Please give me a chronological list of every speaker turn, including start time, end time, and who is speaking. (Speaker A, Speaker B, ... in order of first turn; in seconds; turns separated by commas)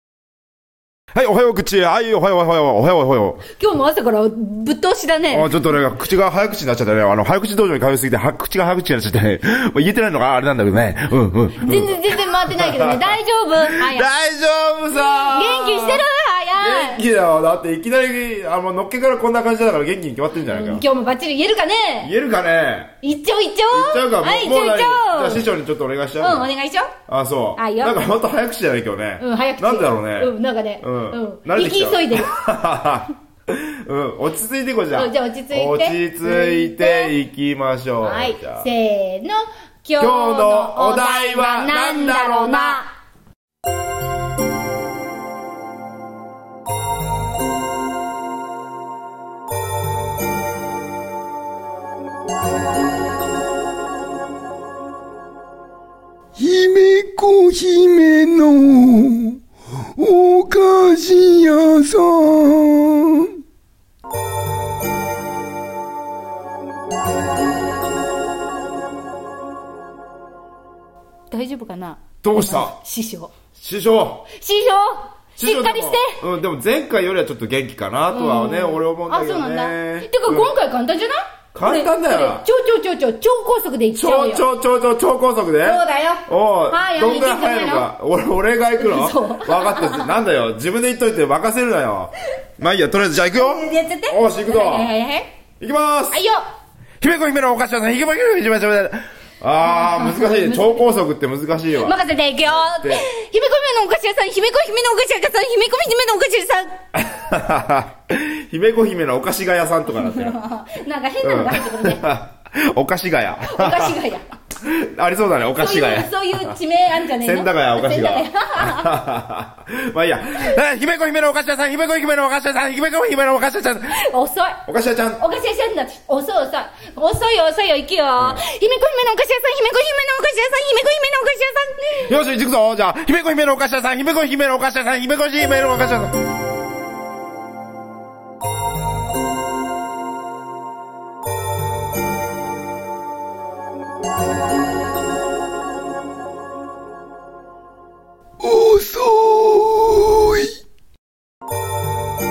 Speaker A: 1.1-3.4, Speaker B: 3.6-5.5, Speaker A: 5.3-16.0, Speaker B: 11.6-14.1, Speaker B: 15.0-17.0, Speaker A: 16.6-20.9, Speaker B: 20.4-22.1, Speaker A: 22.0-22.9, Speaker B: 23.0-25.5, Speaker A: 23.7-26.5, Speaker B: 26.2-26.9, Speaker A: 27.1-38.7, Speaker B: 27.6-28.0, Speaker B: 29.2-32.4, Speaker B: 34.9-37.1, Speaker B: 38.0-42.9, Speaker A: 40.0-42.8, Speaker C: 56.4-59.4, Speaker C: 60.0-63.4, Speaker B: 71.3-73.3, Speaker A: 72.2-72.8, Speaker A: 73.5-74.3, Speaker B: 74.3-76.2, Speaker A: 75.4-80.5, Speaker B: 78.1-84.5, Speaker A: 81.5-82.5, Speaker A: 83.9-94.9, Speaker B: 85.6-87.9, Speaker B: 88.8-90.1, Speaker B: 93.4-95.3, Speaker A: 95.6-96.2, Speaker B: 96.1-96.4, Speaker A: 97.0-102.0, Speaker B: 99.6-100.9, Speaker B: 101.7-106.8, Speaker A: 102.5-103.1, Speaker A: 106.9-110.4, Speaker B: 109.9-112.1, Speaker A: 111.2-114.0, Speaker B: 113.4-114.3, Speaker A: 114.6-116.6, Speaker B: 115.6-118.9, Speaker A: 117.2-124.0, Speaker B: 123.9-124.6, Speaker A: 124.7-125.2, Speaker B: 125.2-132.1, Speaker A: 132.1-136.2, Speaker C: 148.4-150.5